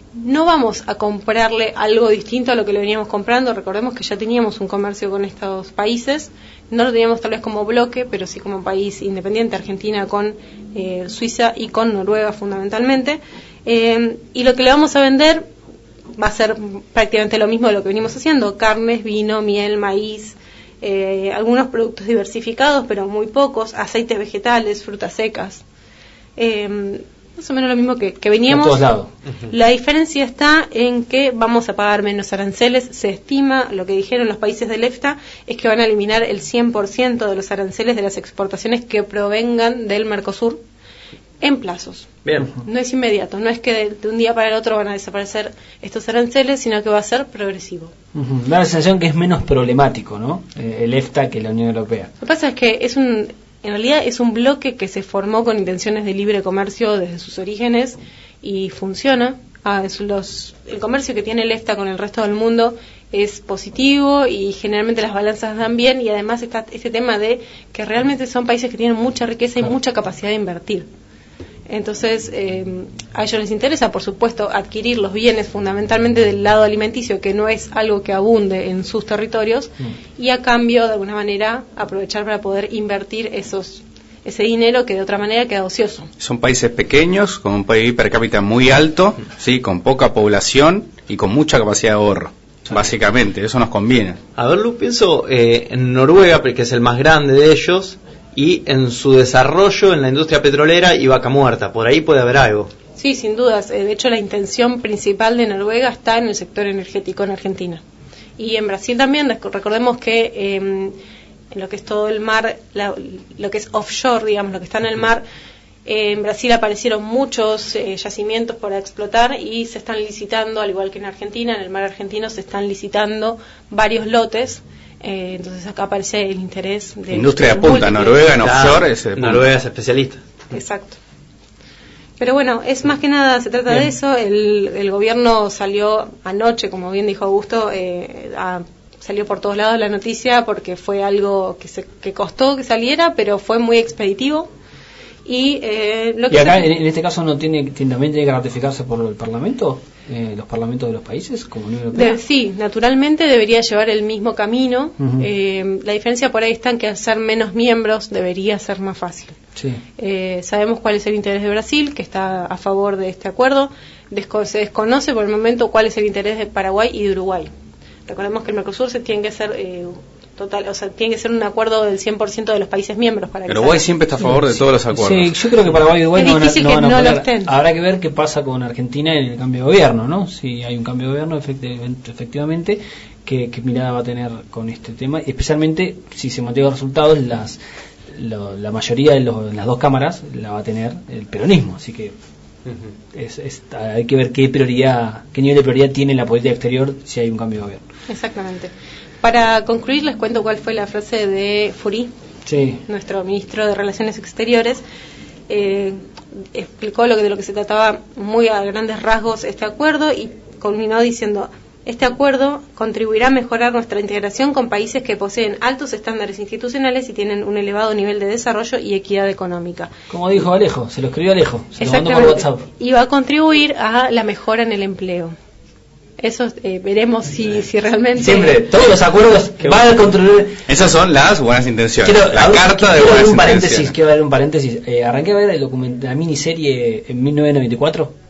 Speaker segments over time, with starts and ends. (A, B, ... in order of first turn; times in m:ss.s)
0:00.2-0:15.5 A
0:16.2-0:25.6 A
0:26.4-0:28.9 A
0:28.5-0:29.1 B
0:29.5-0:40.6 A
0:41.4-0:47.9 A
0:42.3-0:42.5 C
0:48.1-0:52.1 B
0:52.2-1:10.9 A
1:11.7-1:26.1 A
1:26.2-1:34.2 D
1:34.4-1:42.7 C
1:43.0-1:47.8 A
1:48.4-1:50.9 A
1:51.5-1:55.2 A
1:55.9-2:08.3 A
2:07.1-2:09.4 D
2:08.3-2:10.2 C
2:10.5-2:11.0 A
2:12.2-2:24.5 A
2:25.3-2:26.7 A
2:26.3-2:32.2 B
2:31.9-2:39.4 A
2:35.0-2:35.2 B
2:39.6-2:39.8 B
2:40.0-2:47.5 A
2:48.1-2:54.4 A
2:53.5-2:55.3 D
2:54.9-3:12.1 B
2:56.2-2:57.5 A
3:13.1-3:17.8 B
3:18.1-3:22.1 A
3:22.5-3:22.8 B
3:22.8-3:24.8 A
3:25.5-3:39.9 A
3:40.1-3:42.6 B
3:41.8-3:45.3 A
3:46.2-3:48.6 A
3:48.2-3:50.6 B
3:50.7-3:53.9 D
3:52.0-3:58.1 B